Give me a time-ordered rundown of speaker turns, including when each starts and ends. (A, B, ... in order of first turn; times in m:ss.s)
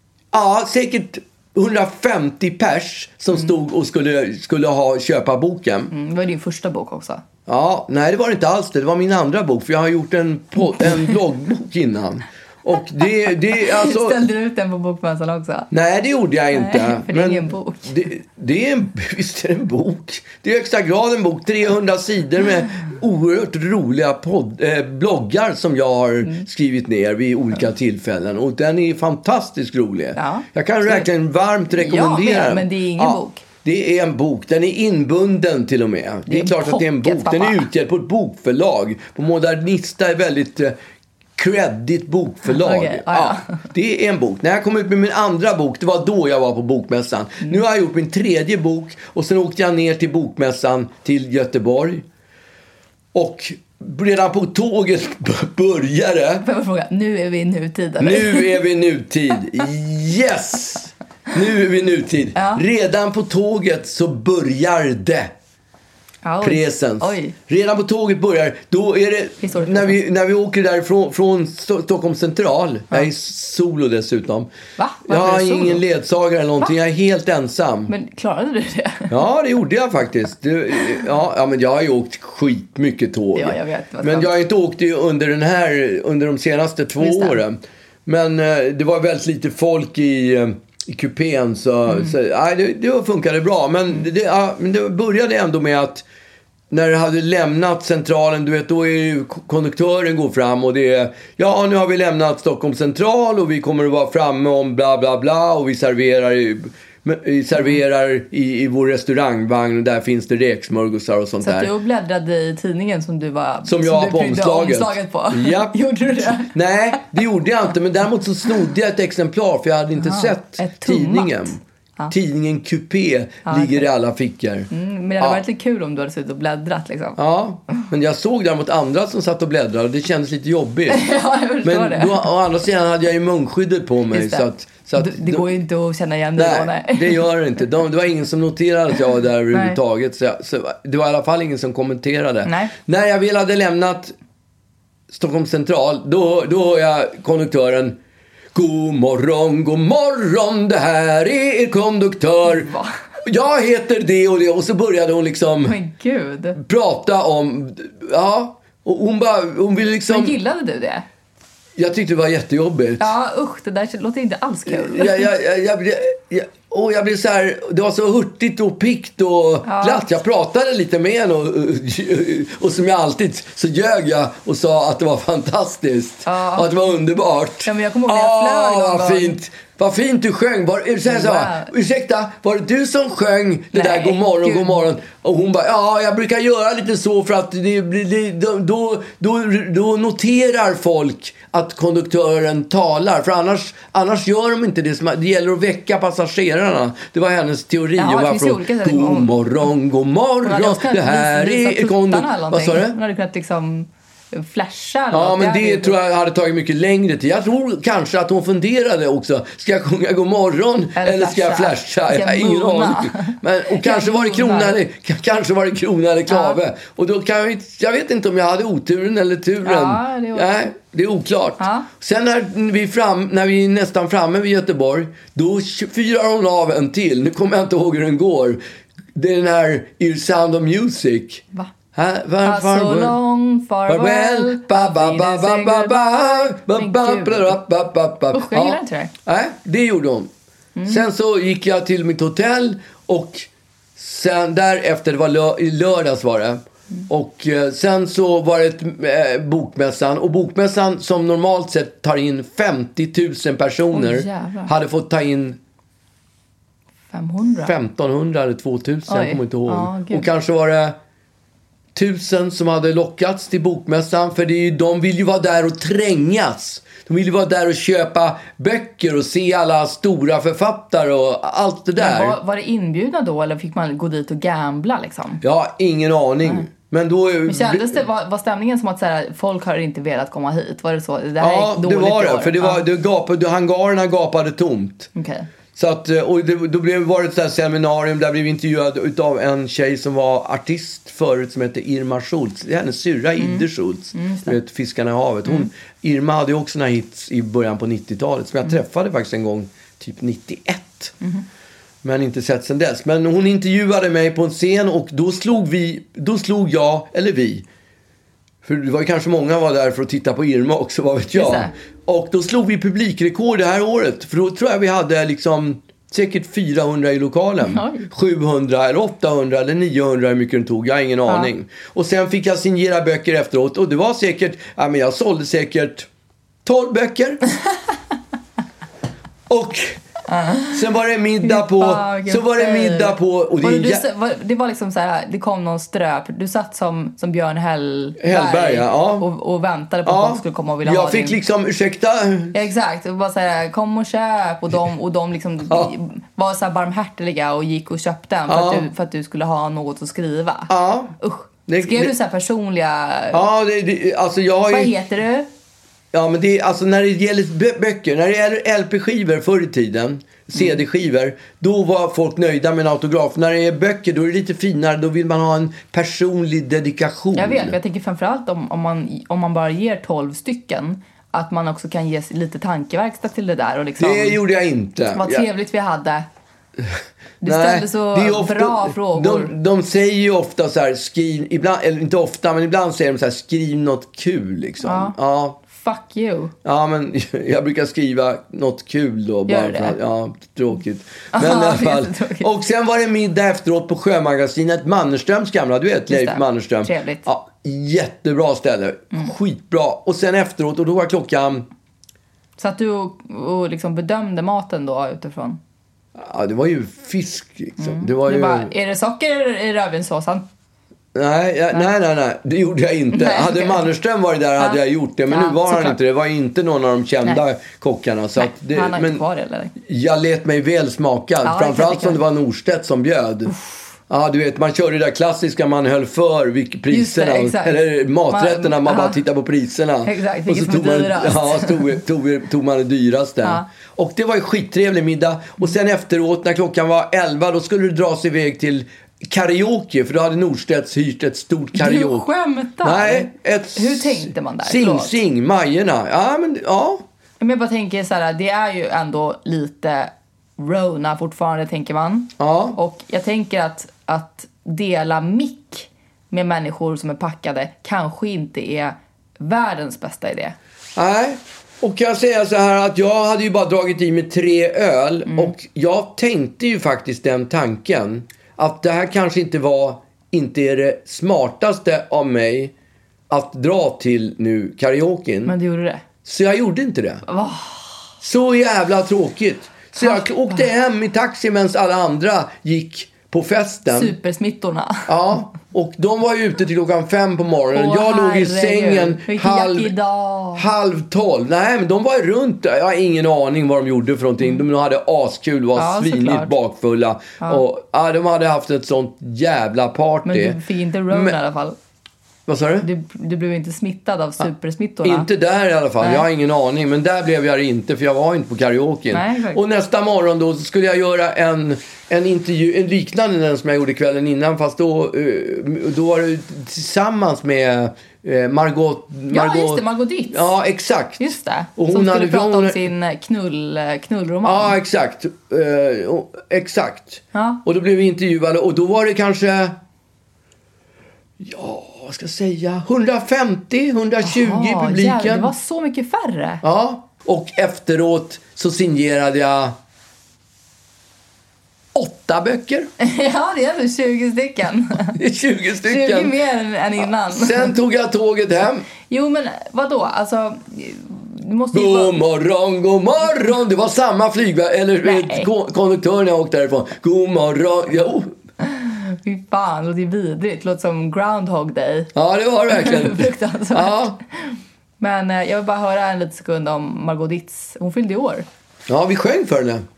0:00.3-0:05.9 A
0:05.9-0:07.2 B
0:07.5-0:14.2 A
0:13.3-0:15.7 B
0:15.7-0:40.8 A
0:16.5-0:18.0 B
0:30.2-0:31.1 B
0:31.7-0:33.4 B
0:36.3-0:37.7 B
0:41.4-0:52.0 A
0:42.4-0:43.6 B
0:53.1-0:56.5 A
0:56.4-0:58.6 B
0:58.0-1:05.3 A
1:02.4-1:02.6 B
1:06.2-1:07.4 B
1:06.4-1:14.5 A
1:09.4-1:10.0 B
1:14.8-1:15.8 B
1:15.1-1:17.9 A
1:17.9-1:19.2 B
1:19.1-1:36.0 A
1:23.4-1:24.3 B
1:27.0-1:27.4 B
1:36.7-1:51.7 A
1:51.4-1:56.5 B
1:53.6-1:55.8 A
1:56.4-2:01.6 A
2:00.0-2:02.1 B
2:02.1-2:04.7 A
2:03.5-2:03.9 B
2:04.7-2:07.2 B
2:07.2-2:11.1 A
2:10.9-2:12.3 B
2:11.6-2:15.5 A
2:14.1-2:17.2 B
2:16.4-2:24.2 A
2:19.5-2:19.8 B
2:22.4-2:22.7 B
2:25.1-2:28.0 A
2:28.5-2:32.7 A
2:32.4-2:32.9 B
2:33.2-2:35.8 A
2:35.7-2:36.6 B
2:36.6-2:40.4 A
2:40.1-2:41.0 B
2:41.8-2:43.1 A
2:43.0-2:45.3 B
2:44.7-3:23.0 A
2:49.6-2:50.1 B
2:56.3-2:56.7 B
2:57.6-2:59.4 B
3:01.1-3:01.7 B
3:03.7-3:04.8 B
3:18.0-3:19.3 B
3:20.4-3:26.0 B
3:25.1-3:48.6 A
3:31.0-3:34.8 B
3:36.3-3:36.6 B
3:39.6-3:40.5 B
3:41.6-3:41.9 B
3:49.2-3:53.2 A
3:52.4-3:57.6 B
3:53.9-4:00.3 A
3:58.3-3:59.1 B
4:00.8-4:01.0 B
4:00.9-4:15.6 A
4:13.9-4:14.7 B
4:17.1-4:17.7 B
4:17.6-4:21.0 A
4:19.1-4:20.3 B
4:22.0-4:32.4 A
4:32.0-4:35.4 B
4:35.4-4:38.0 A
4:37.5-4:42.8 B
4:41.4-4:45.1 A
4:45.2-4:45.5 B
4:45.7-5:01.2 A
4:53.4-4:54.6 B
5:02.0-5:07.7 A
5:08.6-5:26.1 A
5:11.4-5:11.7 B
5:17.6-5:18.1 B
5:26.6-5:27.4 A
5:29.5-5:30.0 A
5:30.3-5:30.8 B
5:30.7-5:34.1 A
5:31.4-5:41.4 B
5:38.2-5:39.3 A
5:40.1-5:42.6 A
5:42.5-5:53.4 B
5:48.5-5:48.9 A
5:50.7-5:51.1 A
5:51.7-5:52.1 A
5:53.3-5:54.9 A
5:54.7-5:55.5 B
5:56.1-6:07.8 A
6:07.4-6:14.4 B
6:14.0-6:15.5 A
6:15.1-6:16.3 B
6:17.4-6:19.5 B
6:17.4-6:25.6 A
6:24.8-6:26.5 B
6:26.6-6:41.7 A
6:29.5-6:30.0 B
6:31.3-6:32.5 B
6:36.1-6:37.3 B
6:42.6-6:45.6 B
6:46.2-6:48.7 A
6:47.8-6:50.5 B
6:51.2-6:59.2 A
6:53.1-6:53.9 B
6:54.6-6:56.0 B
6:58.4-6:59.7 B
6:59.8-7:03.5 A
7:01.4-7:02.2 B
7:03.5-7:03.9 B
7:04.1-7:22.3 A
7:06.9-7:09.2 B
7:10.0-7:12.0 B
7:21.7-7:25.2 B
7:22.8-7:27.0 A
7:27.4-7:40.6 B
7:32.4-7:32.8 A
7:41.0-7:52.7 A
7:45.3-7:45.5 B
7:53.3-7:55.6 A
7:55.4-7:56.0 B
7:56.2-7:57.2 A
7:57.3-7:58.0 B
7:58.2-8:04.1 A
8:00.0-8:00.7 B
8:03.9-8:05.1 B
8:05.1-8:10.0 A
8:07.7-8:10.7 B
8:10.6-8:21.4 A
8:15.8-8:16.5 B
8:20.2-8:21.8 B
8:22.5-8:22.9 A
8:22.8-8:25.3 B
8:25.0-8:42.9 A
8:26.0-8:26.3 B
8:29.1-8:29.6 B
8:39.3-8:40.5 B
8:41.2-8:44.8 B
8:44.4-8:49.8 A
8:47.3-8:47.6 B
8:51.4-8:55.5 A
8:54.2-8:56.6 B
8:56.6-8:59.8 A
9:02.0-9:02.9 A
9:03.0-9:05.2 B
9:05.2-9:06.4 A
9:05.8-9:07.8 B
9:07.0-9:08.9 A
9:09.1-9:12.1 B
9:11.7-9:18.3 A
9:15.0-9:15.5 B
9:18.6-9:22.1 B
9:22.2-9:24.2 A
9:22.7-9:28.5 B
9:28.9-9:29.9 A